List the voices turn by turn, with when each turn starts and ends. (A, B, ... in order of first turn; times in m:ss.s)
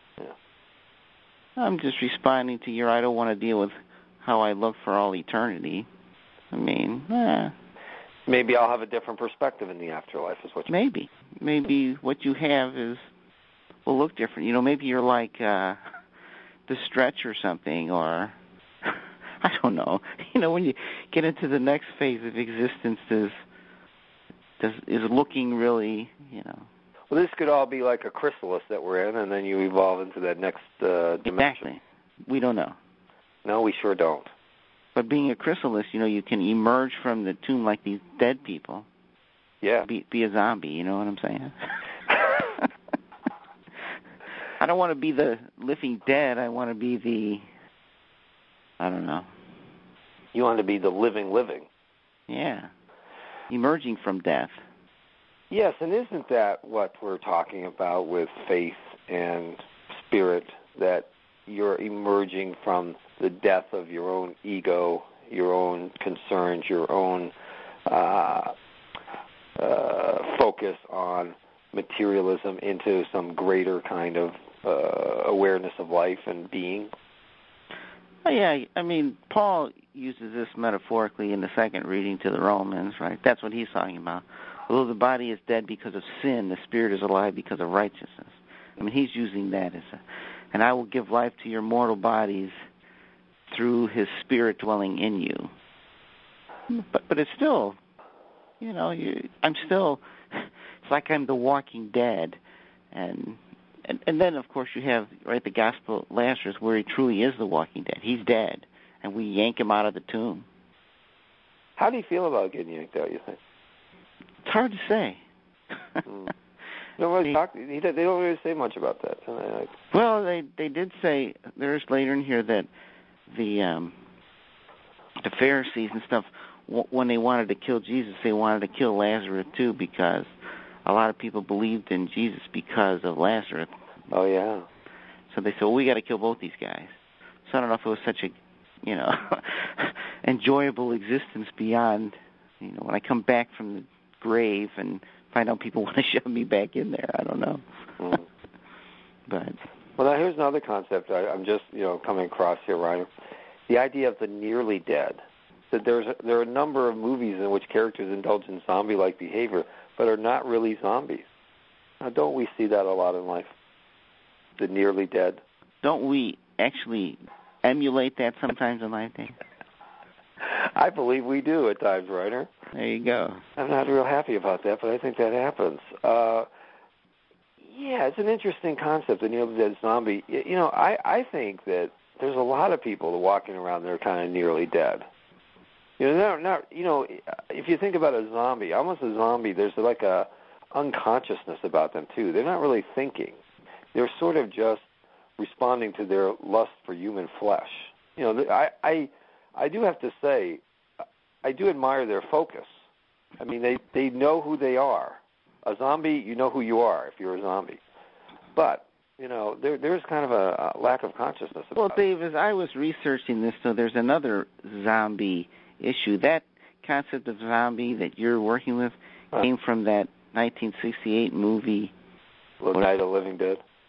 0:01.6-0:05.9 A
0:06.5-0:07.5 A
0:08.3-0:10.7 B
0:10.7-0:13.1 A
0:13.9-0:15.8 A
0:16.7-0:23.4 A
0:24.6-0:26.7 A
0:27.1-0:31.6 B
0:31.2-0:32.8 A
0:33.4-0:34.3 B
0:35.0-0:38.9 A
0:39.6-0:39.9 B
0:39.8-0:41.8 A
0:44.6-0:47.5 A
0:48.8-0:49.3 A
0:50.3-0:51.7 B
0:52.3-0:52.7 A
0:53.5-0:54.6 A
0:55.5-1:07.3 B
1:07.9-1:08.5 B
1:09.6-1:16.9 B
1:18.2-1:32.6 A
1:33.5-1:35.5 A
1:36.7-1:37.8 A
1:38.6-1:42.4 A
1:42.9-1:50.5 A
1:51.8-1:53.4 B
1:54.4-1:55.2 A
1:55.7-1:56.0 A
1:56.1-1:56.3 B
1:57.0-1:59.7 B
1:59.9-2:02.7 A
2:03.3-2:04.0 A
2:05.2-2:10.3 A
2:10.8-2:13.8 A
2:14.1-2:14.7 B
2:15.3-2:16.9 A
2:17.5-2:27.6 A
2:29.3-2:29.6 A
2:30.0-2:33.1 B
2:33.7-2:35.2 B
2:35.7-2:41.2 B
2:42.0-2:43.5 B
2:44.6-2:45.4 B
2:45.8-2:49.4 A
2:50.4-2:52.5 B
2:52.7-2:53.4 A
2:53.6-2:56.5 B
2:57.6-3:05.1 B
3:06.0-3:13.4 B
3:13.9-3:14.8 B
3:15.4-3:20.6 B
3:21.4-3:22.7 B
3:23.4-3:27.8 B
3:28.6-3:32.0 B
3:31.8-3:41.9 A
3:42.6-3:43.6 B